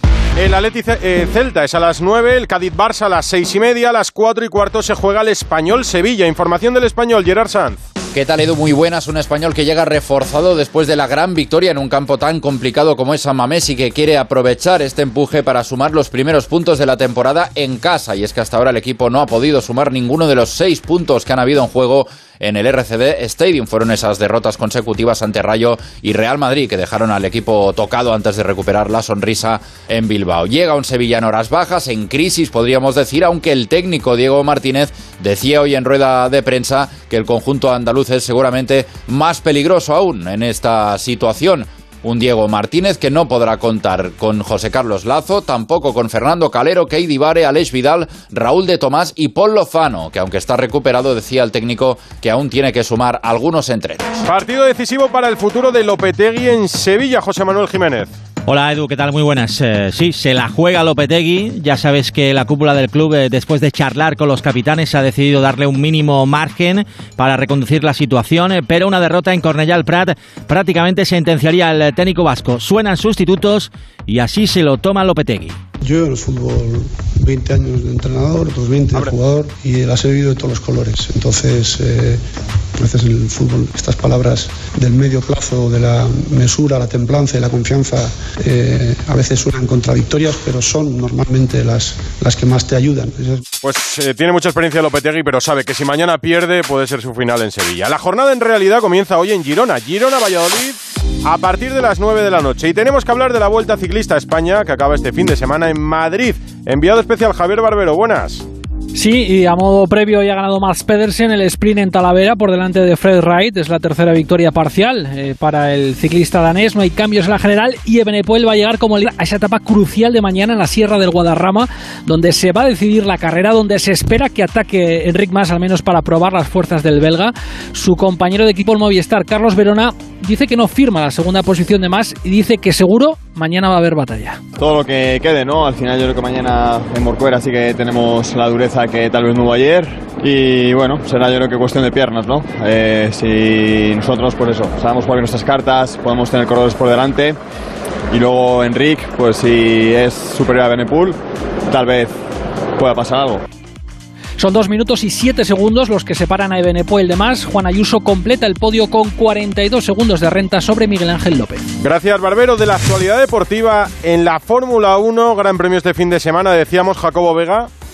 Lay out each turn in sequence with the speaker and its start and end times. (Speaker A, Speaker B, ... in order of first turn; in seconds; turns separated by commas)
Speaker A: 0.3-7.8, Speaker B: 8.1-54.1, Speaker A: 54.3-58.1, Speaker C: 58.4-75.6, Speaker D: 75.8-82.2, Speaker D: 82.8-93.4, Speaker A: 93.6-108.5, Speaker E: 108.9-134.4, Speaker F: 134.6-147.4, Speaker F: 148.1-151.2, Speaker F: 151.7-152.1, Speaker F: 152.8-153.4, Speaker E: 154.4-161.6, Speaker A: 161.8-167.7